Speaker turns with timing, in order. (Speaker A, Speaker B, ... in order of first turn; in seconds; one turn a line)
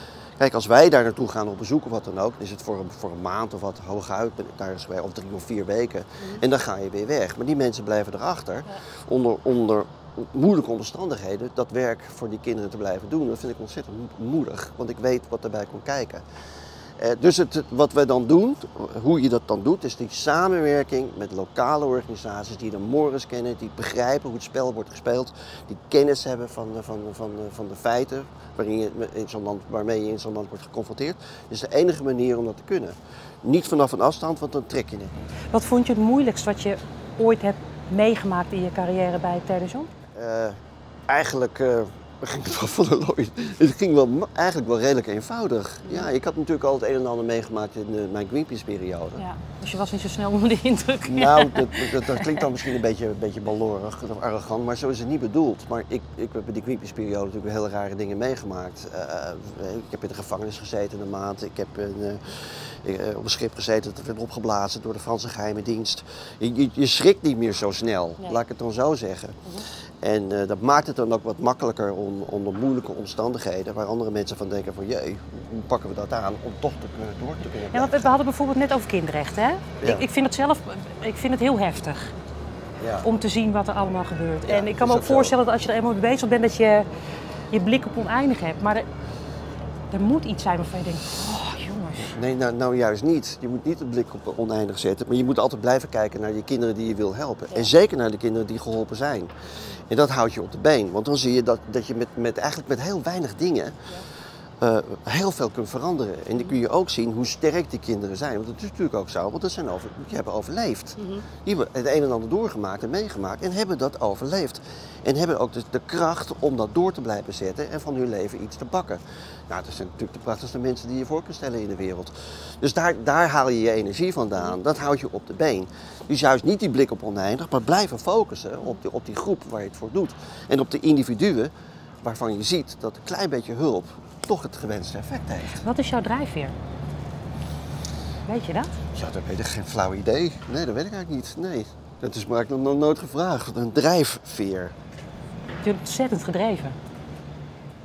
Speaker A: 0.4-16.2
Speaker A: 17.0-35.1
Speaker B: 35.5-39.9
Speaker A: 40.1-40.6
Speaker A: 41.1-49.2
Speaker B: 49.2-52.7
Speaker A: 51.0-69.4
Speaker A: 70.0-78.1
Speaker B: 77.7-82.1
Speaker A: 82.8-83.1
Speaker B: 83.0-86.9
Speaker A: 84.5-85.3
Speaker B: 87.5-88.9
Speaker B: 89.9-92.1
Speaker A: 92.0-99.3
Speaker A: 99.9-103.8
Speaker A: 104.6-131.5
Speaker B: 111.0-111.2
Speaker A: 132.0-135.6
Speaker B: 135.6-136.5
Speaker B: 138.2-138.7
Speaker A: 138.9-144.7
Speaker B: 145.6-146.8